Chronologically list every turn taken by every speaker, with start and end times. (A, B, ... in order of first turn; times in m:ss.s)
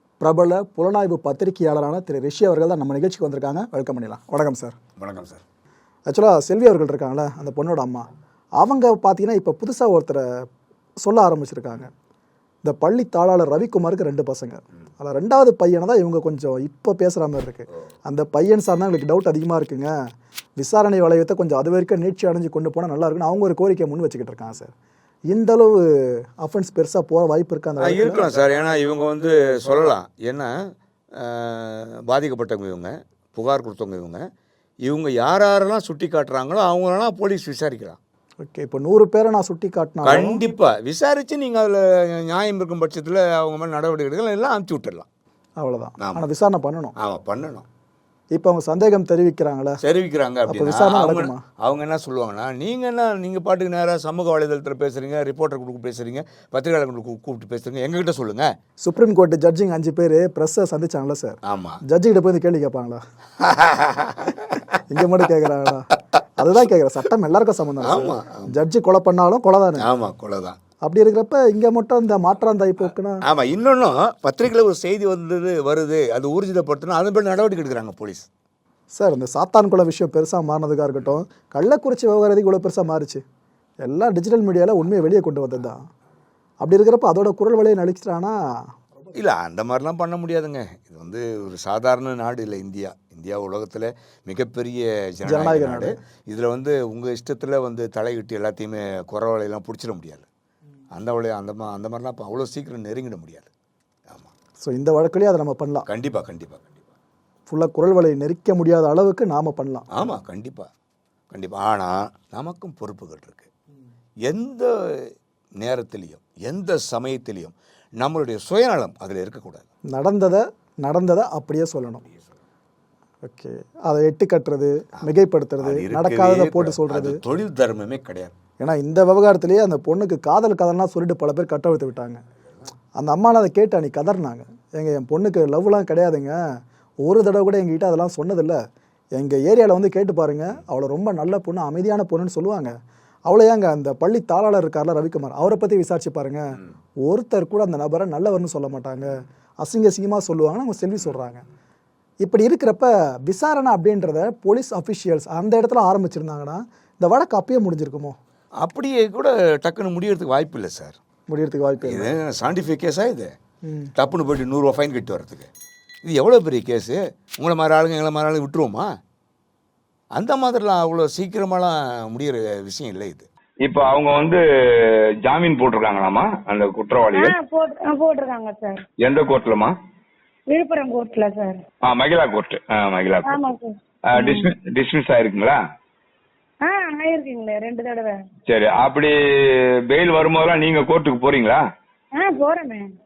0:00.2-0:04.8 A
0:05.0-0:05.4 B
0:06.1-0:08.1 A
0:08.6-0:10.2 A
0:11.0-0:11.9 A
0:12.6-0:20.0 A
0:20.6-0:24.7 A
0:25.3-0:28.3 A
0:27.8-0:30.5 B
0:31.1-0:34.3 B
0:34.8-0:38.0 B
0:38.4-0:40.4 A
0:40.0-0:45.1 B
0:45.6-0:47.0 A
0:46.0-0:46.2 B
0:47.0-0:47.7 B
0:48.3-0:49.8 A
0:49.8-0:58.6 B
0:50.5-0:51.4 A
0:58.8-1:03.0 A
1:01.4-1:01.8 B
1:03.4-1:05.3 B
1:04.9-1:09.9 A
1:07.8-1:08.6 B
1:09.8-1:10.6 B
1:10.8-1:13.2 A
1:13.2-1:18.3 B
1:19.0-1:23.2 A
1:23.8-1:25.8 A
1:26.6-1:28.7 A
1:29.1-1:40.3 B
1:35.3-1:35.9 A
1:40.9-1:43.5 B
1:44.6-1:45.9 A
1:45.9-1:46.7 B
1:47.5-1:49.9 A
1:49.9-1:50.7 B
1:51.3-1:53.5 B
1:54.3-1:59.6 B
1:59.9-2:02.0 A
2:03.3-2:07.2 A
2:05.6-2:08.3 B
2:08.6-2:12.2 A
2:13.0-2:16.4 A
2:17.0-2:18.6 A
2:19.2-2:22.7 A
2:23.3-2:31.4 A
2:32.2-2:38.2 A
2:38.6-2:41.0 B
2:41.3-2:42.1 A
2:41.8-2:43.3 B
2:43.6-2:43.9 A
2:44.0-2:45.5 B
2:46.0-2:48.9 B
2:50.2-2:53.3 B
2:53.6-2:57.4 C
2:57.1-2:58.8 D
2:59.0-2:59.7 C
3:00.5-3:01.6 D
3:01.8-3:03.4 C
3:03.3-3:04.5 D
3:04.1-3:05.6 C
3:06.6-3:08.2 D
3:08.5-3:11.6 C
3:12.2-3:12.9 D